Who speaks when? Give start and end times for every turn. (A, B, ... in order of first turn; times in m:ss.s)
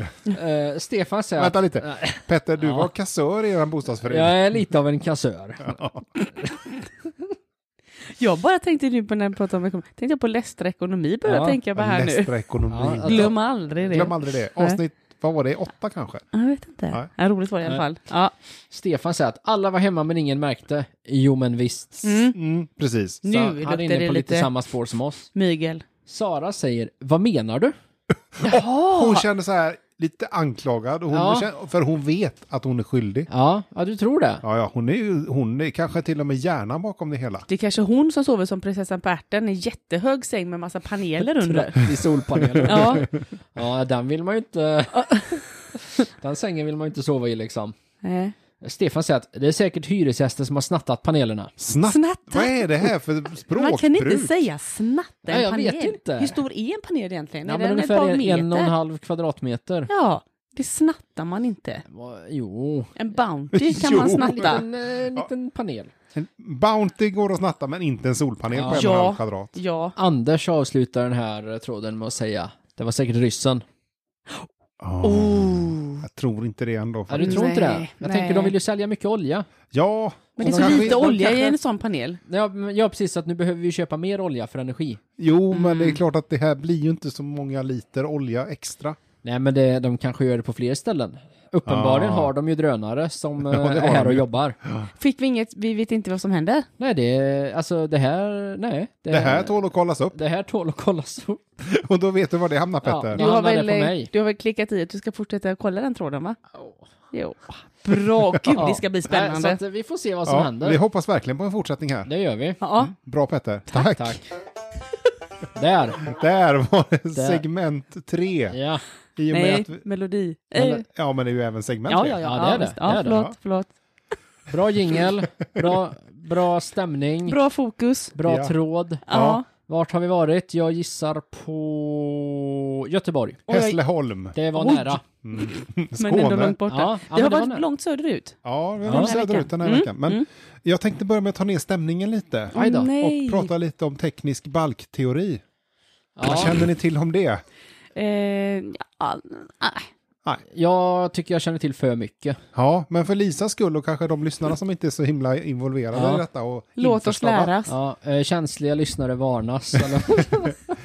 0:00.2-0:02.9 A
0:01.4-0:04.4 B
0:04.1-0:05.8 A
0:05.6-0:06.1 B
0:08.2-0:12.3 C
0:11.3-0:11.6 A
0:11.7-0:13.4 B
0:12.7-0:13.3 A
0:13.0-0:14.8 C
0:13.9-0:16.3 B
0:16.3-0:18.3 C
0:18.7-0:22.3 A
0:22.0-0:22.4 C
0:22.4-0:23.2 B
0:23.2-0:24.5 C
0:23.3-0:25.3 A
0:25.3-0:25.8 C
0:26.0-0:27.7 A
0:28.3-0:33.3 B
0:28.4-0:29.2 C
0:31.1-0:31.5 A
0:33.3-0:34.4 A
0:34.4-0:37.5 B
0:37.5-0:41.9 C
0:41.4-0:47.8 A
0:42.4-0:43.1 B
0:42.6-0:43.1 C
0:45.0-0:45.4 C
0:48.0-0:48.4 C
0:48.6-0:51.5 A
0:51.6-0:54.4 B
0:51.8-0:52.9 C
0:53.5-0:58.7 C
0:55.3-0:56.4 A
0:57.4-0:59.9 A
0:59.9-1:01.8 C
1:01.9-1:03.0 A
1:03.0-1:04.6 C
1:03.5-1:04.6 B
1:03.9-1:05.9 A
1:06.1-1:09.6 B
1:08.5-1:08.9 A
1:08.7-1:10.0 C
1:10.0-1:13.6 A
1:14.8-1:17.4 B
1:15.0-1:16.0 C
1:17.1-1:19.5 A
1:17.2-1:18.5 C
1:19.7-1:21.1 B
1:20.4-1:22.2 C
1:20.4-1:21.5 A
1:22.3-1:25.0 A
1:25.2-1:29.0 B
1:25.5-1:26.0 C
1:29.2-1:34.6 A
1:31.7-1:32.3 B
1:33.4-1:34.9 B
1:35.0-1:36.7 C
1:36.8-1:39.6 A
1:39.1-1:40.2 B
1:40.1-1:41.4 A
1:41.6-1:43.2 B
1:42.8-1:44.1 A
1:43.2-1:46.4 C
1:47.1-1:49.6 C
1:48.5-1:50.8 A
1:50.3-1:52.1 B
1:52.1-1:52.6 A
1:52.6-1:52.9 C
1:52.8-1:54.2 B
1:53.7-1:54.3 A
1:55.6-1:56.1 A
1:56.0-1:58.6 B
1:57.2-1:57.4 A
1:58.5-1:58.8 A
1:59.2-1:59.8 B
1:59.3-2:00.8 C
2:00.6-2:00.8 A
2:00.7-2:02.2 B
2:01.9-2:03.7 C
2:02.2-2:03.2 A
2:03.0-2:03.4 B
2:04.5-2:07.4 A
2:07.3-2:08.2 C
2:08.2-2:09.0 A
2:08.2-2:08.5 B
2:09.1-2:09.4 C
2:09.1-2:09.4 B
2:09.6-2:13.6 A
2:13.5-2:14.4 B
2:14.4-2:15.0 A
2:14.5-2:20.2 C
2:15.2-2:16.6 B
2:16.7-2:17.6 A
2:18.4-2:25.4 B
2:18.8-2:19.1 A
2:22.5-2:23.5 C
2:22.5-2:22.9 A
2:26.2-2:26.6 A
2:26.2-2:27.4 B
2:28.0-2:29.9 C
2:30.5-2:32.4 A
2:32.5-2:37.5 B
2:35.9-2:36.2 A
2:36.8-2:37.7 C
2:37.7-2:40.8 A